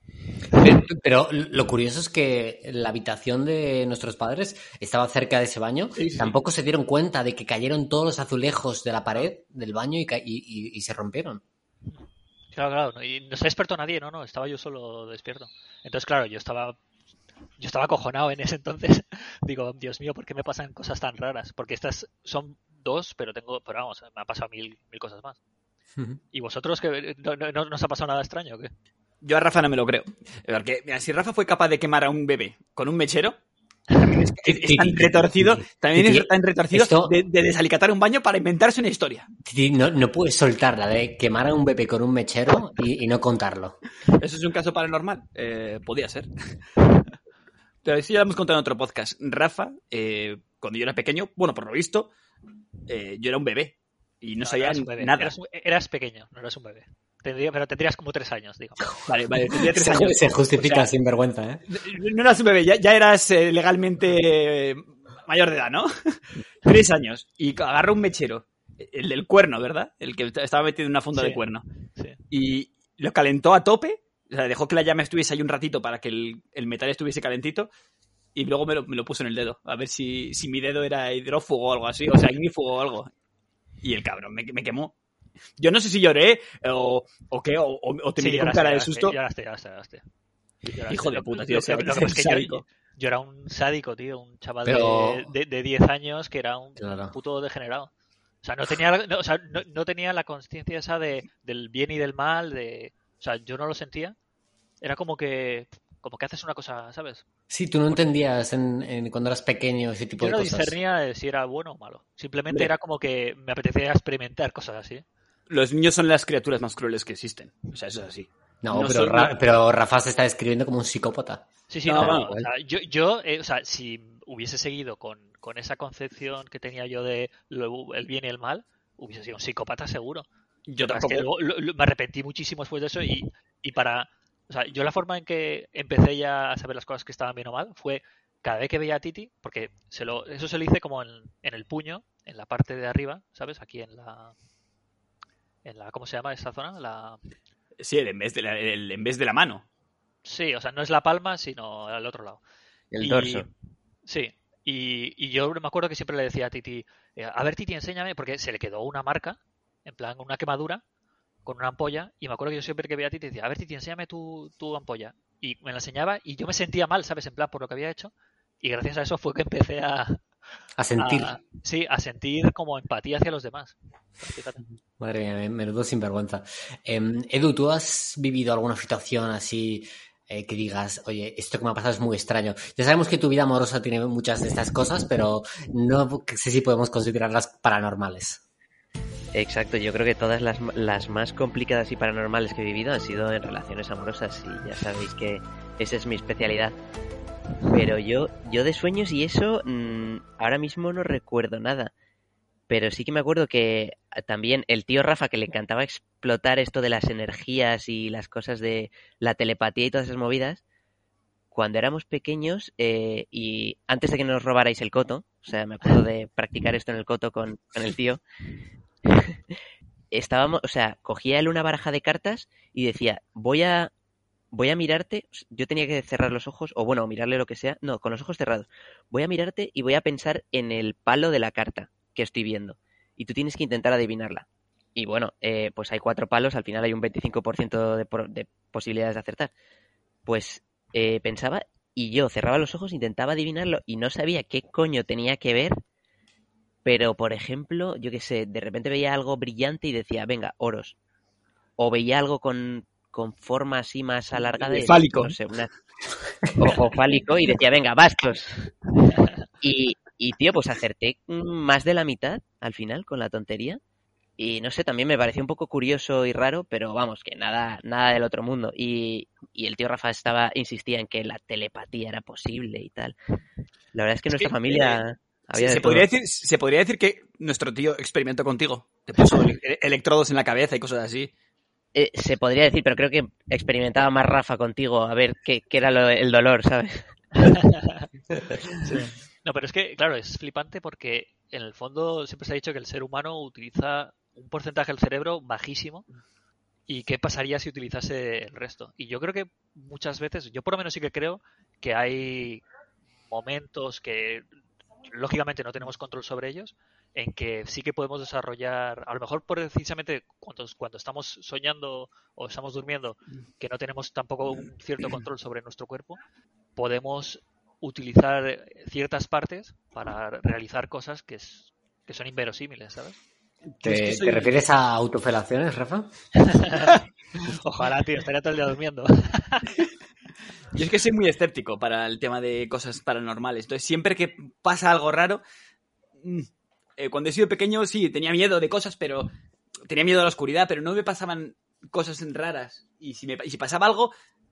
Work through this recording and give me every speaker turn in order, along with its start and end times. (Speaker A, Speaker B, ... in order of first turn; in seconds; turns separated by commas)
Speaker A: 0.5-11.4, Speaker B: 6.0-6.3, Speaker C: 12.5-16.8, Speaker C: 17.6-25.4, Speaker C: 26.3-28.7, Speaker B: 29.2-33.4, Speaker B: 34.0-39.3, Speaker A: 34.4-37.1, Speaker A: 39.4-43.8, Speaker B: 44.2-46.3, Speaker B: 47.8-52.1, Speaker B: 52.9-55.3, Speaker C: 54.4-59.0, Speaker B: 59.1-60.9, Speaker A: 59.7-61.6, Speaker B: 61.7-71.6, Speaker C: 71.1-71.4, Speaker B: 72.3-77.7, Speaker B: 78.3-83.1, Speaker B: 83.8-84.9, Speaker B: 85.6-89.2, Speaker C: 88.2-90.0, Speaker B: 90.7-92.6, Speaker C: 90.7-97.9, Speaker A: 94.6-95.3, Speaker A: 96.8-97.2, Speaker C: 98.4-104.2, Speaker C: 104.8-107.2, Speaker A: 107.5-110.7, Speaker C: 110.2-115.0, Speaker B: 115.5-119.3, Speaker A: 118.6-121.5, Speaker C: 121.7-130.3, Speaker B: 121.8-122.3, Speaker A: 122.0-122.4, Speaker B: 130.7-131.3, Speaker C: 130.8-144.3, Speaker C: 145.6-147.2, Speaker B: 147.8-149.6, Speaker C: 150.2-152.4, Speaker D: 152.9-153.5, Speaker C: 153.0-153.4, Speaker C: 154.1-160.8, Speaker C: 161.4-170.2, Speaker A: 170.8-171.4, Speaker C: 171.0-174.6, Speaker A: 175.0-188.4, Speaker D: 189.3-196.8, Speaker D: 197.7-201.9, Speaker D: 202.7-210.6, Speaker D: 211.5-218.2, Speaker D: 219.1-219.4, Speaker D: 220.1-223.9, Speaker D: 224.5-239.5, Speaker D: 240.2-245.8, Speaker D: 246.8-251.0, Speaker D: 251.8-255.7, Speaker B: 254.4-255.3, Speaker D: 256.5-258.7, Speaker D: 259.6-263.8, Speaker D: 264.4-273.1, Speaker D: 273.9-276.1, Speaker B: 274.3-275.0, Speaker B: 275.6-281.3, Speaker D: 281.9-287.5, Speaker C: 287.5-288.1, Speaker C: 288.8-296.0, Speaker C: 296.9-302.6, Speaker C: 303.3-304.4, Speaker C: 305.1-316.2, Speaker C: 316.8-323.2, Speaker B: 323.7-324.5, Speaker A: 323.8-326.1, Speaker C: 326.4-326.9, Speaker C: 327.5-329.7, Speaker B: 330.7-335.4, Speaker B: 336.2-339.3, Speaker B: 339.9-344.1